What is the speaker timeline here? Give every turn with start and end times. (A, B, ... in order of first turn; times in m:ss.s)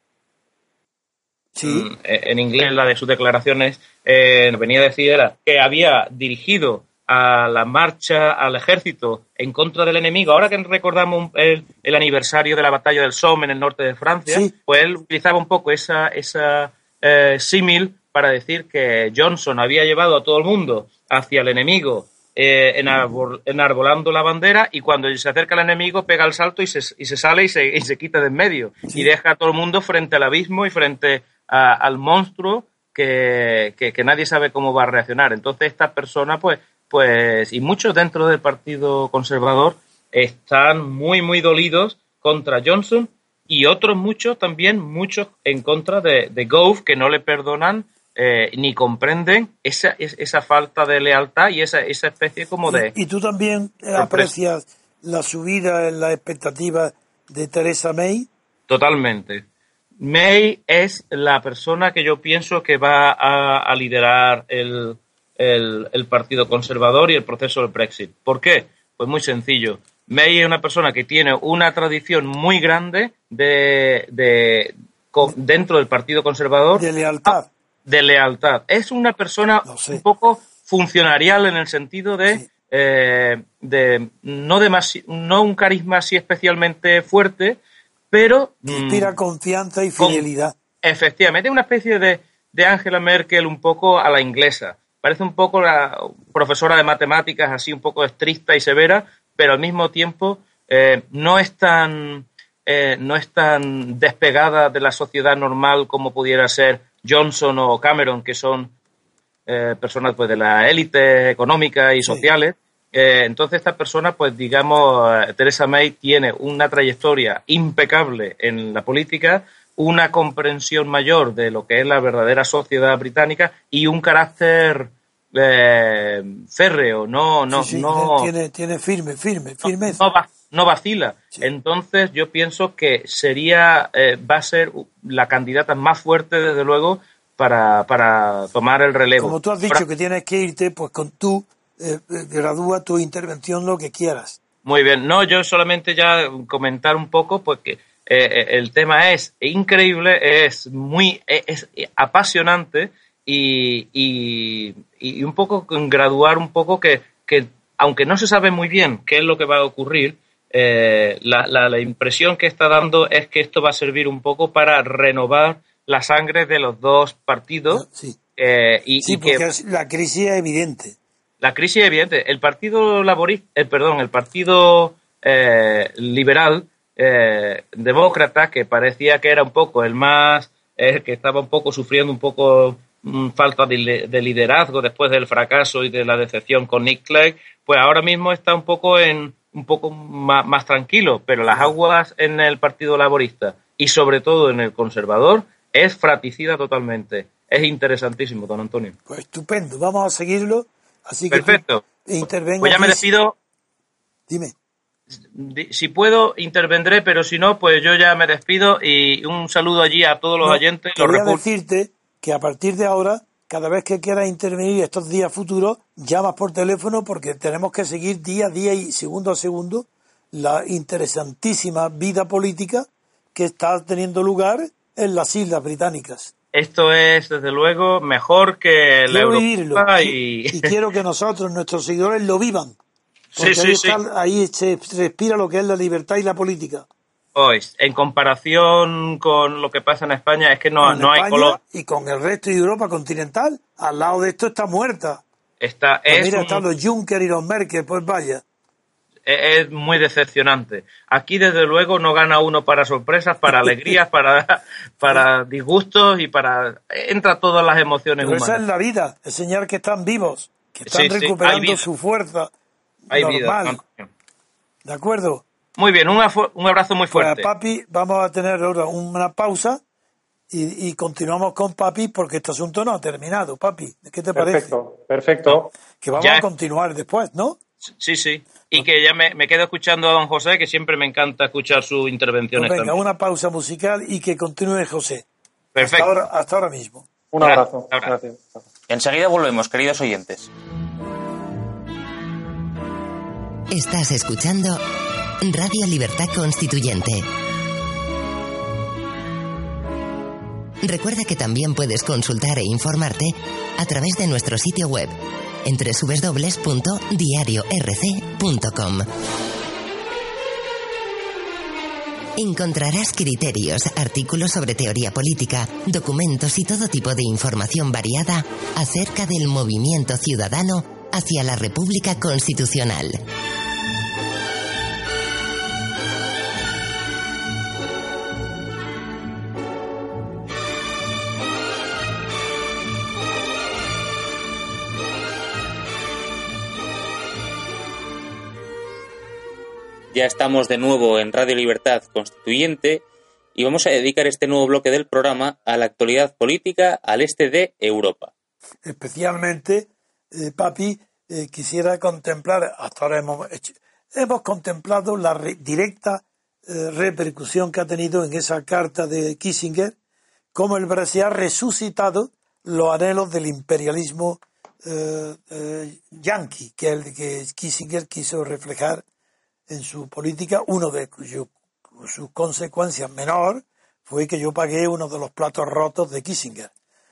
0:01.5-0:01.9 A
0:01.6-0:52.9 B
0:14.3-0:14.5 A
0:52.6-0:58.3 A
0:54.0-0:54.3 B
0:58.7-0:59.4 B
1:00.0-1:29.1 B
1:16.8-1:17.5 A
1:19.6-1:20.0 A
1:28.7-1:30.5 A
1:30.0-1:30.2 B
1:30.8-1:48.7 B
1:49.5-2:08.3 B
2:07.5-2:10.0 A
2:09.6-2:19.8 B
2:19.2-2:24.4 A
2:24.6-2:47.8 B
2:47.7-2:48.2 A
2:48.4-2:49.4 B
2:49.0-2:51.0 A
2:51.4-3:19.0 B
3:19.1-3:23.1 A
3:21.3-3:21.8 B
3:22.6-3:23.3 B
3:24.3-3:24.5 A
3:25.3-3:31.4 B
3:30.4-3:46.3 A
3:46.5-3:50.7 B
3:49.1-3:52.8 A
3:53.3-3:54.0 B
3:53.4-3:56.8 A
3:57.3-4:01.6 B
4:00.8-4:05.2 A
4:05.6-4:06.6 B
4:06.1-4:08.4 A
4:09.2-4:18.6 B
4:13.5-4:14.0 A
4:18.2-4:22.5 A
4:20.9-4:21.8 B
4:23.1-4:23.8 A
4:23.1-4:24.1 B
4:24.8-4:25.4 A
4:25.8-4:27.5 B
4:27.1-4:29.8 A
4:30.5-4:34.7 A
4:34.3-4:35.7 C
4:35.9-4:37.6 A
4:36.2-4:36.4 B
4:38.0-4:43.0 B
4:42.5-4:45.2 A
4:45.7-4:46.1 B
4:45.8-4:47.1 A
4:47.3-4:48.6 C
4:47.4-4:48.1 B
4:48.9-4:50.5 D
4:53.7-4:54.8 E
4:55.4-4:57.2 E
5:00.8-5:09.1 E
5:12.4-5:23.2 E
5:40.1-5:43.0 D
5:43.5-5:48.3 D
5:48.8-5:59.9 A
6:00.5-6:09.0 A
6:09.7-6:16.7 A